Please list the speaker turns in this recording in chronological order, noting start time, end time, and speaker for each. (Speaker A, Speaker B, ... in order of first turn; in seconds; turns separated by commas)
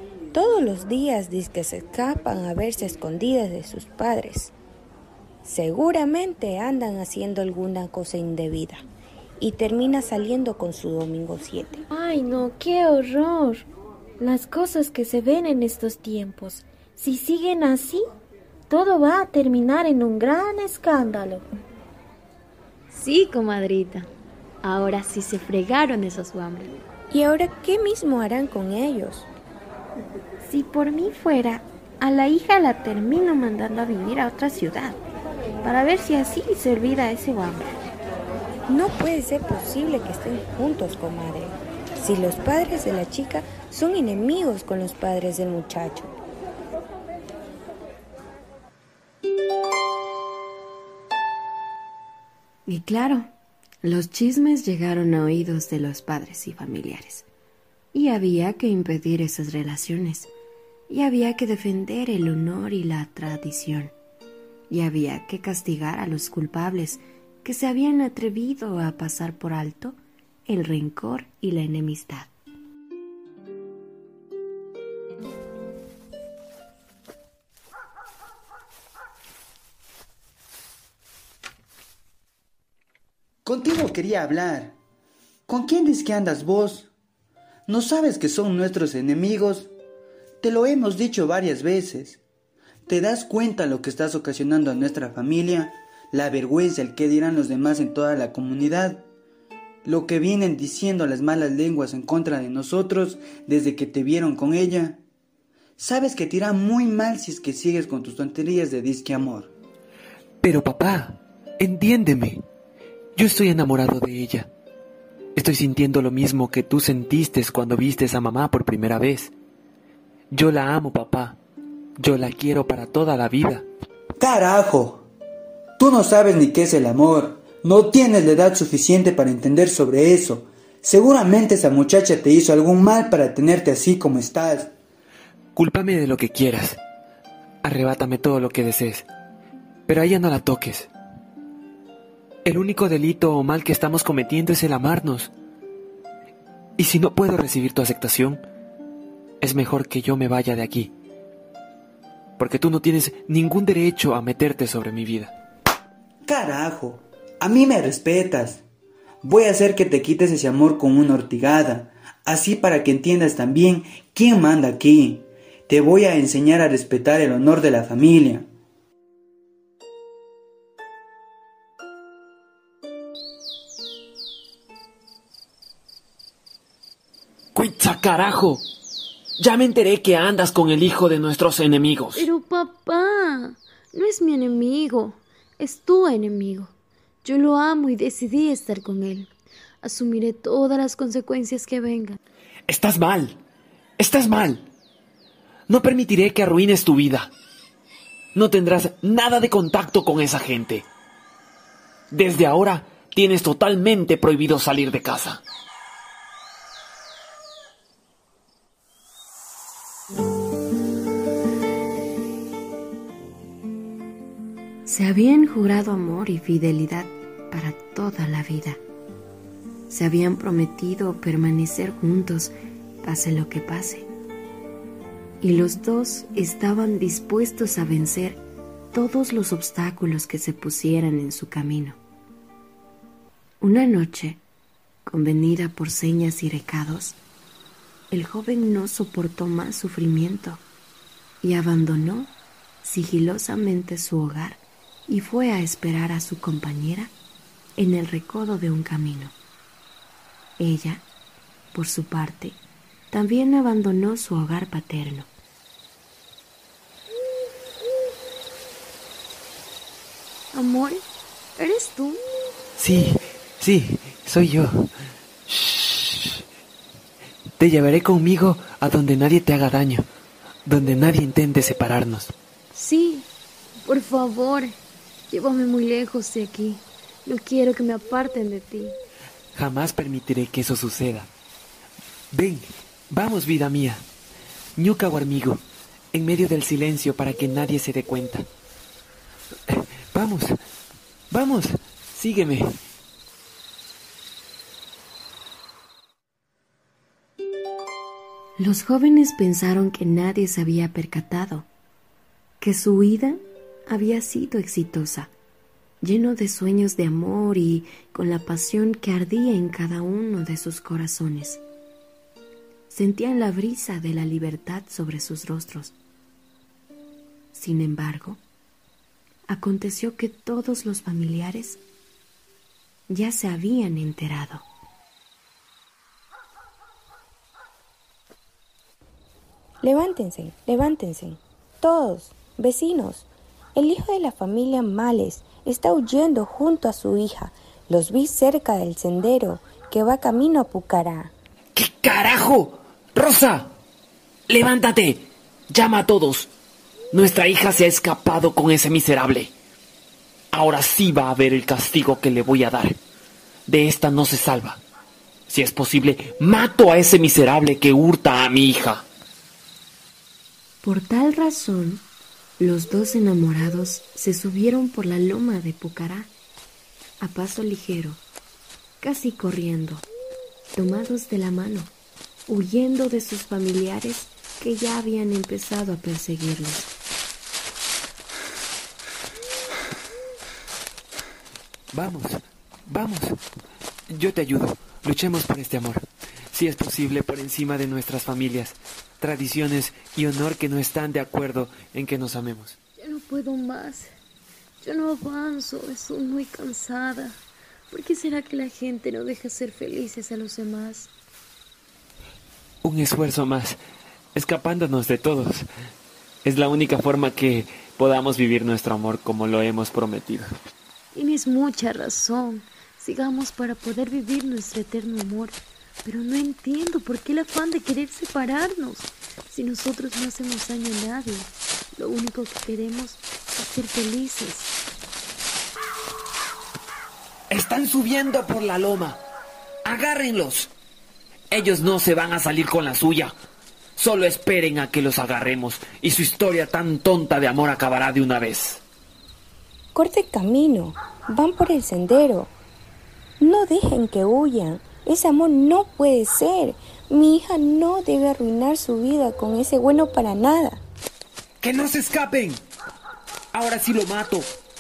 Speaker A: 0.3-4.5, Speaker A: 5.5-8.8, Speaker A: 9.4-11.9, Speaker B: 11.9-13.6, Speaker B: 14.2-18.1, Speaker B: 18.7-21.4, Speaker C: 22.9-24.1, Speaker C: 24.6-26.7, Speaker A: 27.1-29.3, Speaker D: 30.4-35.0, Speaker D: 35.6-37.7, Speaker A: 38.7-46.1, Speaker D: 52.7-53.3, Speaker D: 53.8-57.3, Speaker D: 57.9-60.3, Speaker D: 60.9-63.9, Speaker D: 64.7-72.3, Speaker E: 83.5-84.8, Speaker E: 85.5-86.9, Speaker E: 87.7-89.7, Speaker E: 90.4-92.2, Speaker E: 92.9-99.1, Speaker E: 99.8-105.0, Speaker E: 105.8-109.5, Speaker F: 110.4-112.4, Speaker F: 113.2-114.5, Speaker F: 115.4-119.3, Speaker F: 120.3-121.4, Speaker F: 122.0-123.7, Speaker E: 124.2-125.1, Speaker E: 125.8-134.7, Speaker F: 135.6-136.8, Speaker F: 137.6-139.1, Speaker F: 139.9-140.9, Speaker F: 142.4-145.3, Speaker F: 146.8-148.4, Speaker F: 149.4-150.9, Speaker F: 152.4-155.3, Speaker E: 156.2-158.6, Speaker E: 159.2-168.5, Speaker F: 177.6-178.6, Speaker F: 179.4-182.3, Speaker C: 182.2-186.7, Speaker C: 187.2-189.3, Speaker C: 189.8-192.2, Speaker F: 192.7-193.4, Speaker F: 194.0-194.7, Speaker F: 195.7-197.3, Speaker F: 198.3-200.9, Speaker F: 202.1-205.4, Speaker D: 214.8-218.8, Speaker D: 219.9-224.1, Speaker D: 225.4-228.4, Speaker D: 228.9-232.0, Speaker D: 233.6-234.4, Speaker D: 235.1-237.2, Speaker D: 238.1-240.6, Speaker D: 241.4-247.1, Speaker D: 247.8-249.3, Speaker D: 250.6-251.1, Speaker D: 251.7-252.6, Speaker D: 253.1-255.3, Speaker C: 260.5-261.1, Speaker C: 261.6-262.2, Speaker F: 262.8-264.9, Speaker F: 265.5-266.4, Speaker F: 267.6-270.1, Speaker F: 270.6-272.3, Speaker C: 272.7-273.3, Speaker C: 273.8-274.8, Speaker C: 275.3-279.0, Speaker F: 279.5-281.3, Speaker F: 282.3-284.0, Speaker F: 284.8-288.5, Speaker F: 289.7-290.5, Speaker F: 291.3-292.8, Speaker D: 298.6-301.7, Speaker D: 302.6-305.3, Speaker D: 306.0-311.6, Speaker D: 312.9-316.0, Speaker D: 317.5-318.4, Speaker D: 319.5-321.8, Speaker D: 323.1-324.7, Speaker A: 329.8-341.3, Speaker F: 341.8-343.7, Speaker F: 344.5-346.5, Speaker F: 347.1-349.5, Speaker F: 350.5-353.0, Speaker F: 353.7-354.8, Speaker F: 355.5-359.1, Speaker D: 360.8-362.1, Speaker D: 362.6-366.3, Speaker D: 367.2-368.2, Speaker D: 369.0-370.1, Speaker D: 370.8-371.9, Speaker D: 372.5-376.9, Speaker F: 381.9-383.3, Speaker F: 384.1-392.8, Speaker C: 393.0-394.1, Speaker C: 394.8-401.1, Speaker F: 402.8-403.8, Speaker F: 404.4-405.7, Speaker F: 406.4-410.5, Speaker C: 411.1-424.7, Speaker F: 427.5-429.2, Speaker F: 429.9-430.7, Speaker F: 431.5-433.3, Speaker F: 434.0-438.8, Speaker A: 439.9-442.5, Speaker A: 443.4-450.8, Speaker F: 451.6-452.6, Speaker F: 453.5-454.5